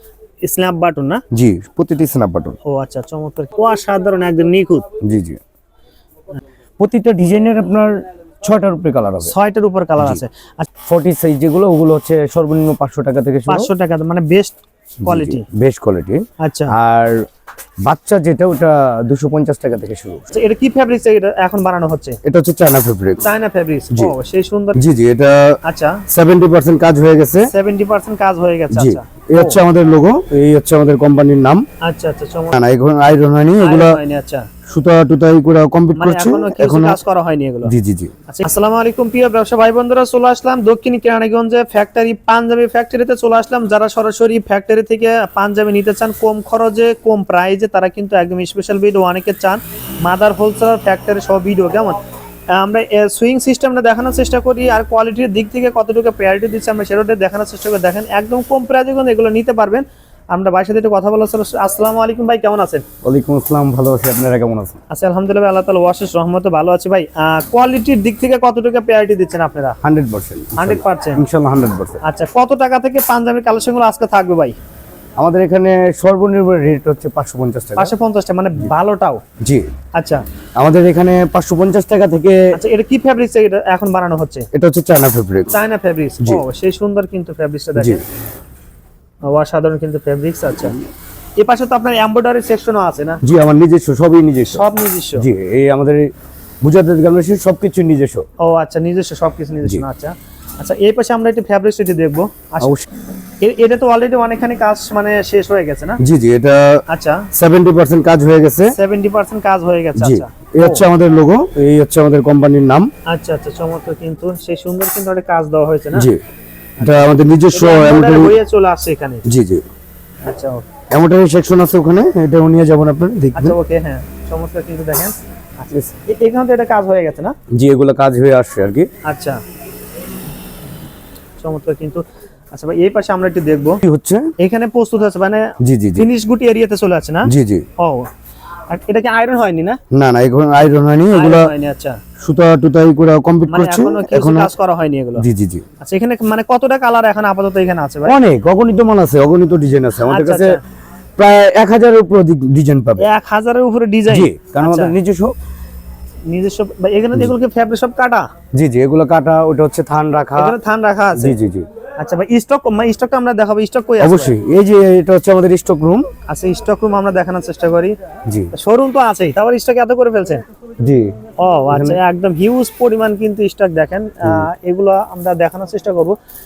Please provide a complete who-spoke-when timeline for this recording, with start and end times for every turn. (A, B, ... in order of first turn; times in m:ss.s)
0:00.4-0:01.2 A
0:01.3-0:02.6 B
0:02.6-0:04.8 A
0:05.0-0:05.4 B
0:06.8-0:09.3 B
0:09.2-0:10.6 A
0:10.8-0:13.7 B
0:13.5-0:15.4 A
0:15.0-0:17.2 B
0:16.4-0:16.7 A
0:17.8-0:20.3 B
0:20.3-0:22.2 A
0:22.2-0:23.2 B
0:23.2-0:24.8 A
0:24.7-0:25.6 B
0:25.6-0:26.0 A
0:26.1-0:27.5 B
0:27.4-0:29.6 A
0:28.7-0:31.6 B
0:31.8-0:32.6 A
0:32.5-0:34.0 B
0:33.6-0:34.5 A
0:34.6-0:37.0 B
0:36.0-0:37.7 A
0:37.6-0:38.1 B
0:38.3-0:52.0 A
0:52.5-1:02.8 A
1:03.0-1:04.8 B
1:04.9-1:09.8 A
1:09.8-1:12.0 B
1:10.6-1:11.2 A
1:12.0-1:14.5 A
1:15.2-1:17.9 B
1:17.8-1:19.2 A
1:19.4-1:19.7 B
1:20.0-1:20.2 A
1:20.6-1:22.4 B
1:22.5-1:24.5 A
1:24.5-1:25.5 B
1:25.5-1:28.0 A
1:27.8-1:28.0 B
1:29.2-1:30.8 A
1:31.4-1:33.2 A
1:33.2-1:34.6 B
1:34.5-1:35.2 A
1:35.2-1:36.1 B
1:36.6-1:38.2 B
1:38.4-1:42.7 A
1:42.6-1:42.9 B
1:43.4-1:46.0 A
1:46.0-1:48.8 B
1:46.9-1:47.3 A
1:48.7-1:50.8 A
1:50.0-1:52.9 B
1:53.1-1:56.1 A
1:55.9-1:56.2 B
1:56.8-1:58.3 B
1:56.8-1:59.2 A
1:59.2-1:59.6 B
2:00.2-2:00.6 A
2:00.9-2:03.6 B
2:03.3-2:07.3 A
2:07.5-2:08.9 B
2:09.0-2:09.4 A
2:11.4-2:13.8 A
2:13.8-2:14.3 B
2:14.4-2:18.1 A
2:15.6-2:16.1 B
2:17.2-2:17.6 B
2:18.7-2:19.8 A
2:19.9-2:21.5 B
2:21.1-2:22.0 A
2:22.2-2:24.5 B
2:23.5-2:25.2 A
2:25.2-2:25.6 B
2:25.8-2:28.2 A
2:28.0-2:30.6 B
2:30.0-2:30.6 A
2:31.2-2:33.0 B
2:33.0-2:35.0 A
2:34.1-2:35.3 B
2:36.3-2:38.3 A
2:38.5-2:40.6 B
2:40.3-2:41.4 A
2:41.2-2:41.6 B
2:42.0-2:44.3 A
2:44.0-2:46.1 B
2:46.3-2:48.0 A
2:48.3-2:48.5 B
2:48.5-2:50.4 A
2:50.8-2:51.1 B
2:51.4-2:56.2 A
2:51.7-2:52.0 B